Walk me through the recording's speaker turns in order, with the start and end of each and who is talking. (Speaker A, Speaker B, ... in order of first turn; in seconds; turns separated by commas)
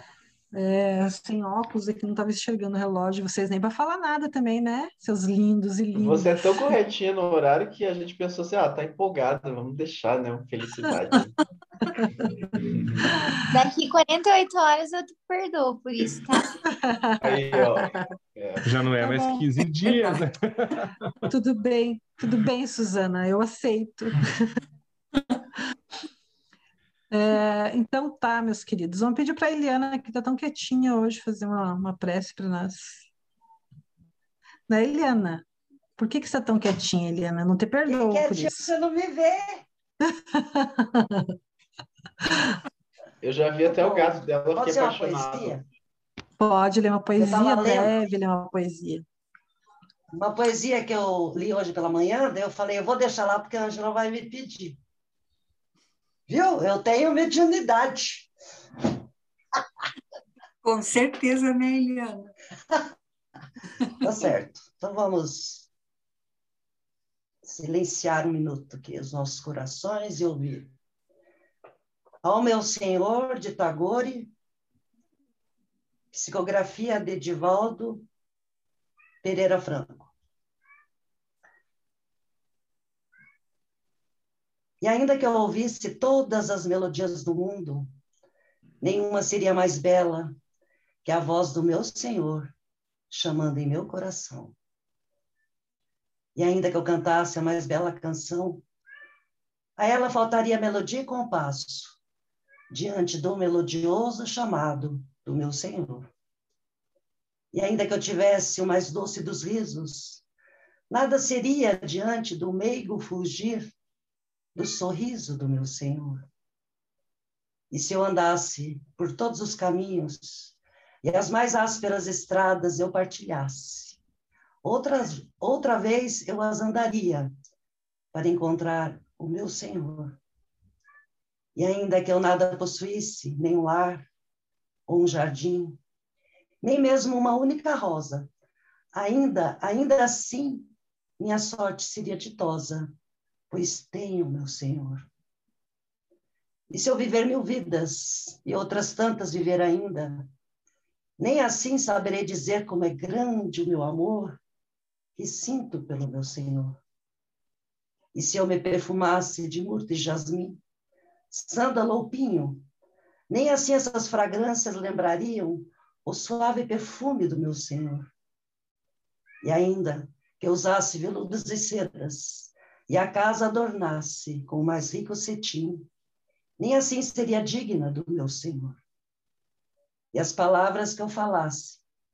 Speaker A: 0.5-6.8, Speaker B: 6.0-11.3, Speaker A: 12.0-12.5, Speaker B: 12.7-13.1, Speaker C: 13.5-16.5, Speaker A: 16.7-18.0, Speaker B: 17.2-18.7, Speaker D: 18.6-20.9, Speaker E: 19.0-20.2, Speaker A: 21.3-24.3, Speaker A: 27.1-33.1, Speaker A: 34.7-35.4, Speaker A: 36.0-38.7, Speaker F: 37.9-39.6, Speaker A: 40.1-41.3, Speaker B: 43.2-45.6, Speaker F: 43.7-45.6, Speaker A: 46.4-49.0, Speaker F: 47.2-47.9, Speaker F: 50.1-54.8, Speaker F: 56.3-58.3, Speaker E: 60.6-62.3, Speaker F: 64.0-65.7, Speaker F: 67.4-70.7, Speaker F: 72.2-74.3, Speaker F: 76.1-78.1, Speaker F: 79.2-80.1, Speaker F: 84.8-87.9, Speaker F: 88.8-90.4, Speaker F: 91.0-92.5, Speaker F: 93.1-94.6, Speaker F: 96.4-98.6, Speaker F: 99.8-102.0, Speaker F: 102.7-106.1, Speaker F: 107.5-110.2, Speaker F: 110.9-113.7, Speaker F: 114.6-116.3, Speaker F: 117.7-124.0, Speaker F: 124.6-127.3, Speaker F: 128.1-130.2, Speaker F: 131.6-134.1, Speaker F: 134.9-135.8, Speaker F: 136.6-138.3, Speaker F: 138.9-142.9, Speaker F: 143.5-145.1, Speaker F: 146.7-150.3, Speaker F: 151.2-154.4, Speaker F: 155.2-156.8, Speaker F: 158.2-160.6, Speaker F: 161.3-162.7, Speaker F: 163.3-168.1, Speaker F: 169.4-175.9, Speaker F: 176.6-178.8, Speaker F: 180.1-181.8